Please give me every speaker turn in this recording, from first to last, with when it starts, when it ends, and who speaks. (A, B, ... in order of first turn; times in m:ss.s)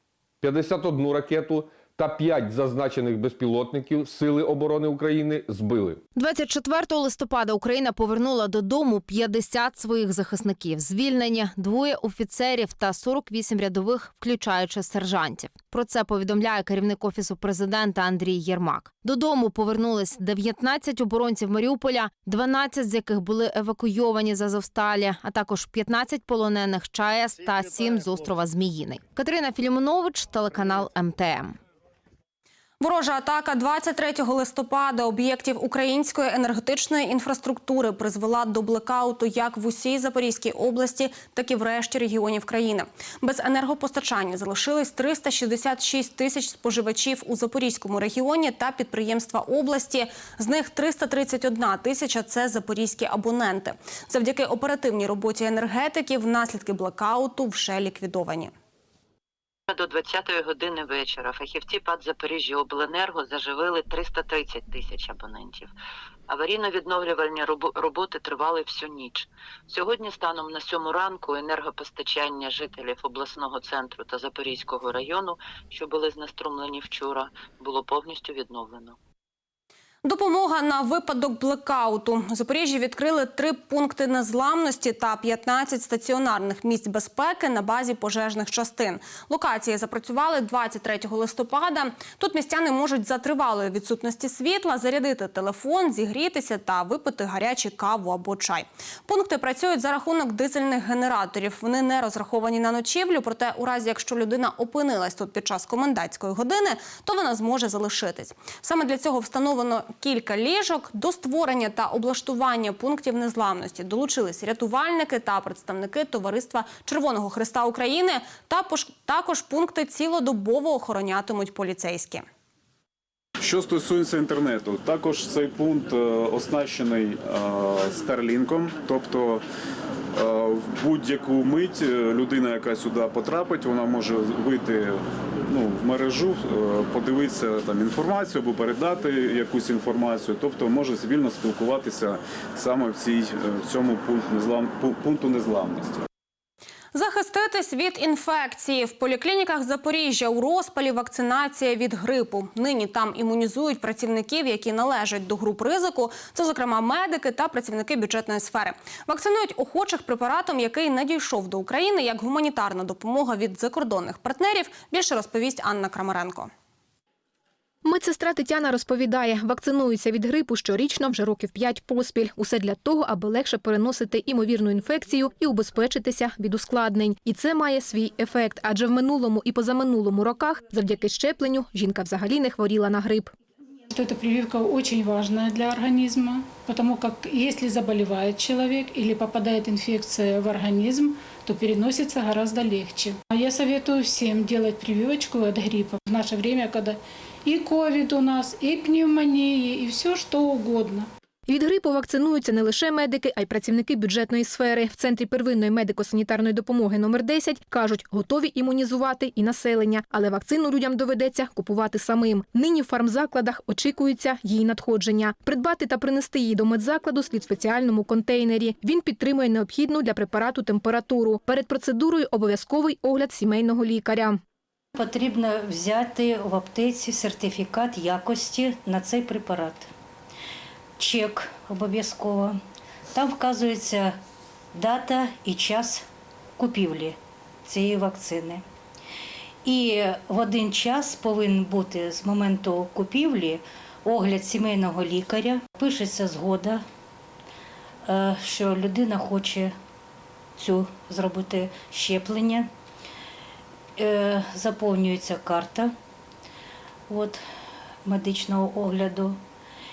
0:00.4-0:06.0 A
0:06.2-0:31.6 B
0:32.8-0:58.5 C
0:59.7-1:05.7 D
1:06.3-1:19.0 D
1:20.0-2:02.2 C
2:03.4-2:09.4 E
2:10.1-2:26.0 E
2:26.9-2:46.5 C
2:47.8-3:03.3 F
3:03.9-3:21.1 G
3:21.5-3:44.4 F
3:44.9-3:49.9 H
3:51.0-3:52.6 H
3:53.1-3:54.2 H
3:54.7-3:56.0 H
3:56.6-3:58.6 H
3:59.6-4:06.8 H
4:08.0-4:09.7 H
4:10.6-4:12.7 H
4:14.0-4:15.9 H
4:17.1-4:17.4 H
4:18.0-4:19.4 H